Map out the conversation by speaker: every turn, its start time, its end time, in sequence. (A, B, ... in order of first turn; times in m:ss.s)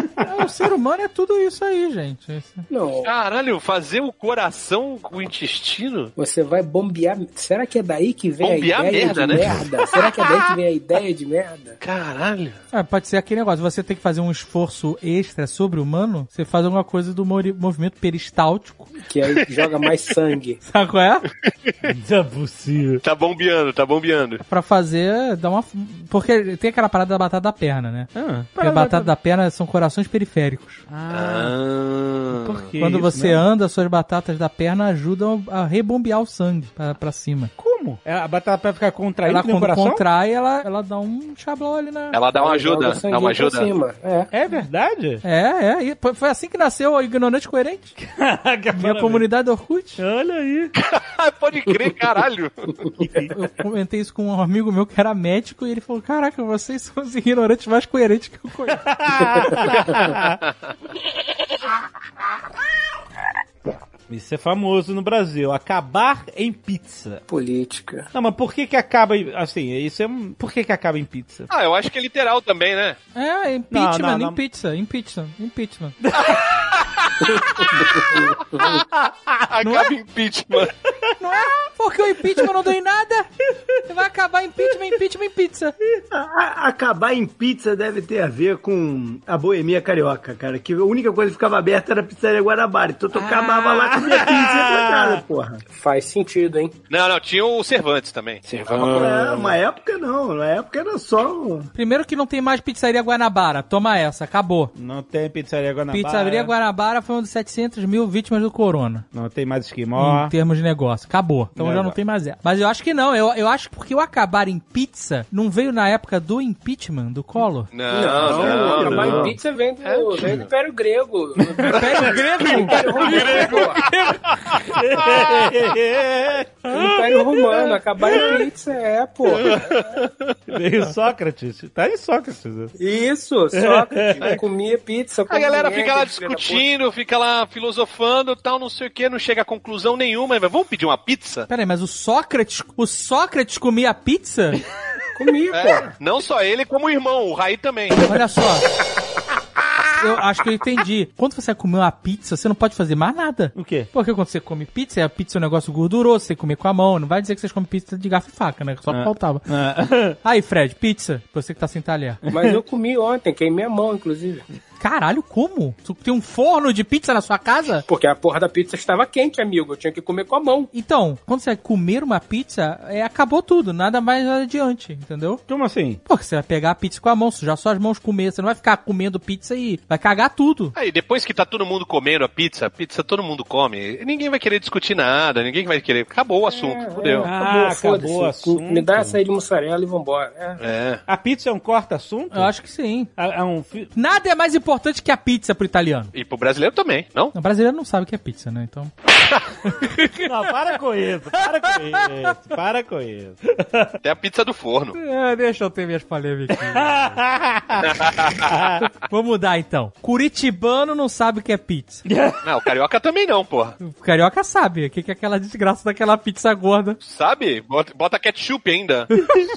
0:00.2-0:02.6 A
0:02.7-0:03.1 B
0:03.0-0:06.1 C
0:06.2-0:11.8 B
0:08.4-0:10.0 C
0:11.8-0:12.6 C
0:12.7-0:18.9 A
0:19.0-0:20.6 B
0:19.4-0:19.7 C
0:20.6-0:21.2 A
0:21.4-0:21.9 C
0:21.8-0:23.0 D
0:23.0-0:24.4 C
0:24.5-0:30.8 A
0:28.1-0:29.1 D
0:30.9-0:31.5 D
0:31.1-0:32.6 C
0:32.3-0:33.4 D
0:32.8-0:37.5 A
0:37.6-0:40.0 D
0:39.2-0:42.2 A
0:42.1-0:43.7 C
0:42.4-0:44.3 B
0:44.3-0:45.2 D
0:45.2-0:48.0 A
0:48.0-0:49.2 D
0:48.7-0:50.0 A
0:50.0-0:50.7 D
0:50.8-0:52.8 C
0:53.0-0:53.4 D
0:53.3-0:58.8 A
0:58.8-1:00.4 D
1:00.0-1:00.7 C
1:04.1-1:07.2 D
1:07.3-1:08.1 B
1:08.1-1:11.5 D
1:11.5-1:13.0 C
1:13.1-1:16.0 A
1:13.7-1:14.4 D
1:16.0-1:16.7 D
1:16.2-1:18.8 C
1:17.4-1:18.4 B
1:18.6-1:19.1 D
1:19.4-1:20.7 C
1:19.6-1:19.9 A
1:21.2-1:23.3 A
1:23.8-1:25.7 A
1:26.1-1:35.6 E
1:33.1-1:35.2 D
1:35.7-1:36.8 B
1:36.9-1:38.9 C
1:38.4-1:39.6 B
1:38.7-1:41.7 E
1:38.8-1:39.1 D
1:41.7-1:44.7 A
1:44.7-1:46.5 D
1:45.9-1:49.0 A
1:49.1-1:50.3 D
1:50.0-1:57.7 A
1:51.6-1:52.0 D
1:57.7-2:00.5 C
1:57.9-2:03.8 B
1:58.1-1:59.3 D
2:01.4-2:02.1 D
2:01.6-2:04.2 A
2:02.7-2:03.8 C
2:04.6-2:08.4 D
2:04.7-2:05.5 C
2:06.7-2:10.0 B
2:09.4-2:10.3 C
2:10.5-2:12.7 D
2:12.8-2:16.6 B
2:13.5-2:14.4 D
2:15.3-2:21.5 C
2:21.5-2:24.6 A
2:25.2-2:25.9 B
2:25.5-2:28.0 C
2:28.0-2:28.6 A
2:29.9-2:39.4 A
2:33.5-2:33.9 D
2:38.9-2:40.2 D
2:40.2-2:42.2 A
2:42.3-2:44.4 B
2:42.3-2:42.6 D
2:44.8-2:47.8 A
2:47.9-2:50.7 B
2:50.7-2:55.4 A
2:55.5-2:56.0 D
2:56.0-3:00.7 A
3:00.7-3:07.3 C
3:06.5-3:10.6 B
3:07.2-3:09.2 D
3:10.6-3:11.0 C
3:11.1-3:12.5 D
3:12.3-3:13.1 A
3:13.2-3:13.9 D
3:13.9-3:16.1 A
3:16.1-3:17.3 C
3:17.3-3:18.9 A
3:19.6-3:20.5 A
3:20.2-3:23.9 D
3:21.6-3:22.0 A
3:24.0-3:25.0 C
3:24.9-3:27.2 A
3:26.6-3:28.9 D
3:27.8-3:28.6 C
3:29.1-3:32.0 A
3:32.1-3:32.4 D
3:32.4-3:33.8 C
3:33.8-3:37.0 A
3:37.0-3:39.1 C